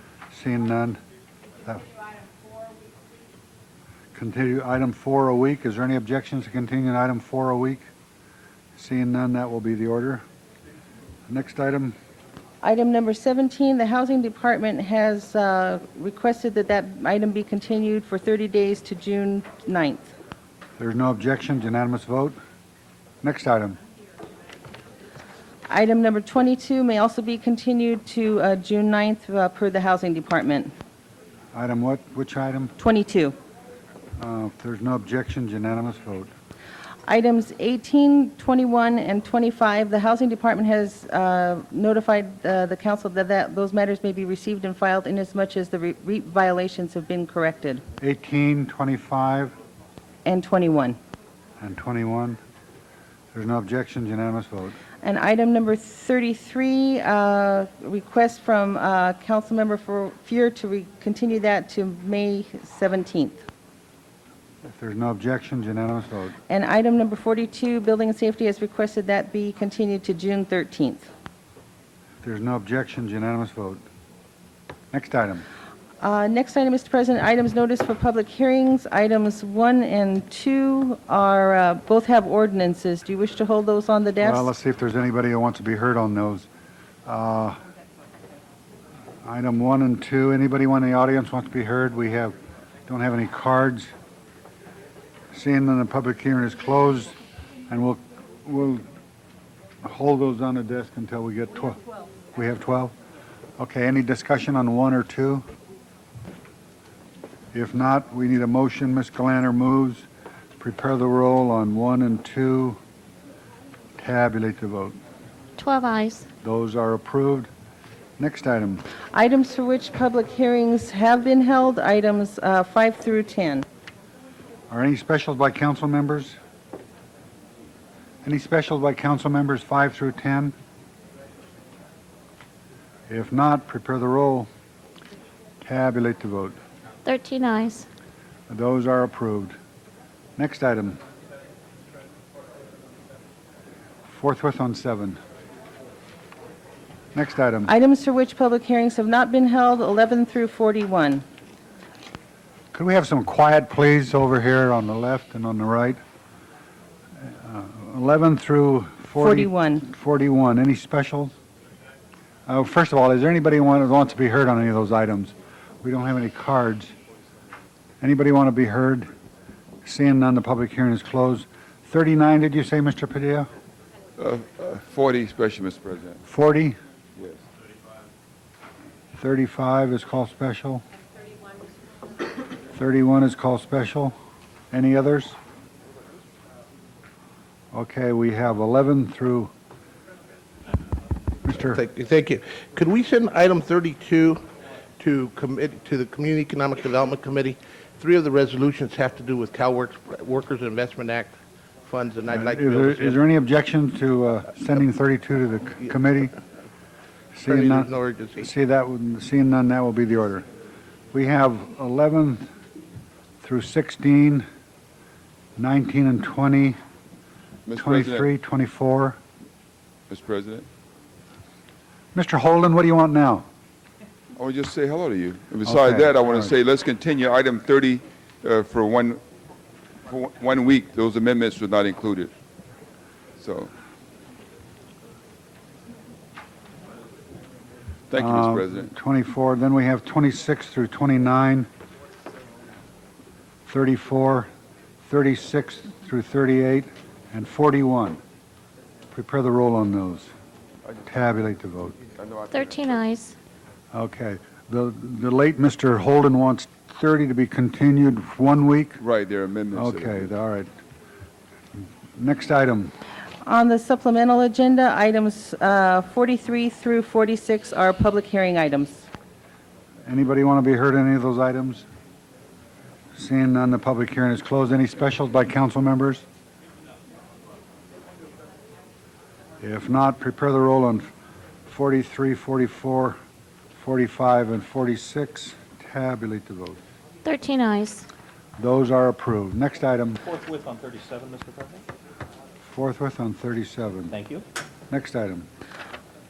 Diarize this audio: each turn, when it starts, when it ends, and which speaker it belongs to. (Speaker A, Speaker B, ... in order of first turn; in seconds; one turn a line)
Speaker A: 0.3-1.0
Speaker A: 4.1-7.8
Speaker A: 8.7-10.2
Speaker A: 11.3-11.9
Speaker B: 12.6-20.1
Speaker A: 20.8-22.4
Speaker A: 23.2-23.8
Speaker B: 25.7-30.7
Speaker A: 31.5-32.7
Speaker B: 32.8-33.3
Speaker A: 34.2-36.3
Speaker B: 37.1-47.8
Speaker A: 48.0-49.5
Speaker B: 50.2-51.0
Speaker A: 51.6-52.4
Speaker A: 53.3-54.8
Speaker B: 55.0-63.4
Speaker A: 64.6-66.3
Speaker B: 66.5-71.1
Speaker A: 72.2-73.8
Speaker A: 74.9-75.4
Speaker B: 76.0-84.5
Speaker A: 84.2-86.5
Speaker A: 87.0-87.6
Speaker A: 89.2-92.3
Speaker A: 92.9-93.9
Speaker A: 95.3-97.2
Speaker A: 97.7-98.8
Speaker A: 99.8-101.8
Speaker A: 102.3-102.9
Speaker A: 103.6-105.4
Speaker A: 107.5-110.1
Speaker A: 110.6-112.8
Speaker A: 114.0-115.0
Speaker C: 115.6-116.3
Speaker A: 116.4-117.5
Speaker A: 118.2-118.8
Speaker B: 119.1-123.7
Speaker A: 124.7-126.4
Speaker A: 128.2-130.5
Speaker A: 133.1-134.5
Speaker A: 135.6-136.6
Speaker C: 137.0-137.9
Speaker A: 138.5-139.6
Speaker A: 140.4-141.0
Speaker A: 144.1-145.2
Speaker A: 147.1-147.7
Speaker B: 147.7-151.2
Speaker A: 152.7-156.0
Speaker A: 157.2-161.3
Speaker B: 159.2-159.8
Speaker A: 162.5-166.9
Speaker A: 168.0-169.1
Speaker A: 169.8-173.5
Speaker D: 174.2-176.2
Speaker A: 176.2-176.8
Speaker A: 179.1-180.8
Speaker A: 182.7-184.2
Speaker A: 184.7-185.4
Speaker A: 187.7-189.5
Speaker A: 191.4-191.8
Speaker E: 191.7-194.4
Speaker E: 195.0-203.2
Speaker A: 202.3-206.3
Speaker A: 207.3-210.4
Speaker E: 207.5-208.4
Speaker A: 211.1-212.5
Speaker A: 213.4-214.4
Speaker A: 215.6-216.8
Speaker D: 217.7-218.3
Speaker A: 217.8-219.2
Speaker D: 220.1-220.7
Speaker A: 222.1-223.4
Speaker D: 224.3-229.2
Speaker A: 225.6-226.5
Speaker D: 230.1-232.3
Speaker D: 233.4-233.7
Speaker D: 238.1-238.9
Speaker A: 238.2-241.7
Speaker A: 243.7-244.5
Speaker A: 245.1-248.2
Speaker A: 249.1-250.3
Speaker A: 251.1-252.0
Speaker D: 252.1-252.7
Speaker C: 252.5-253.3
Speaker A: 253.9-259.0
Speaker D: 259.0-260.3
Speaker A: 259.7-260.7
Speaker A: 261.8-262.9
Speaker B: 263.4-269.1
Speaker A: 270.1-271.8
Speaker A: 273.1-276.2
Speaker A: 279.6-281.1
Speaker A: 281.6-283.2
Speaker A: 283.7-286.8
Speaker C: 287.2-288.1
Speaker A: 288.6-290.2
Speaker F: 290.2-291.8
Speaker A: 292.6-294.1
Speaker F: 294.1-294.4
Speaker A: 294.9-295.5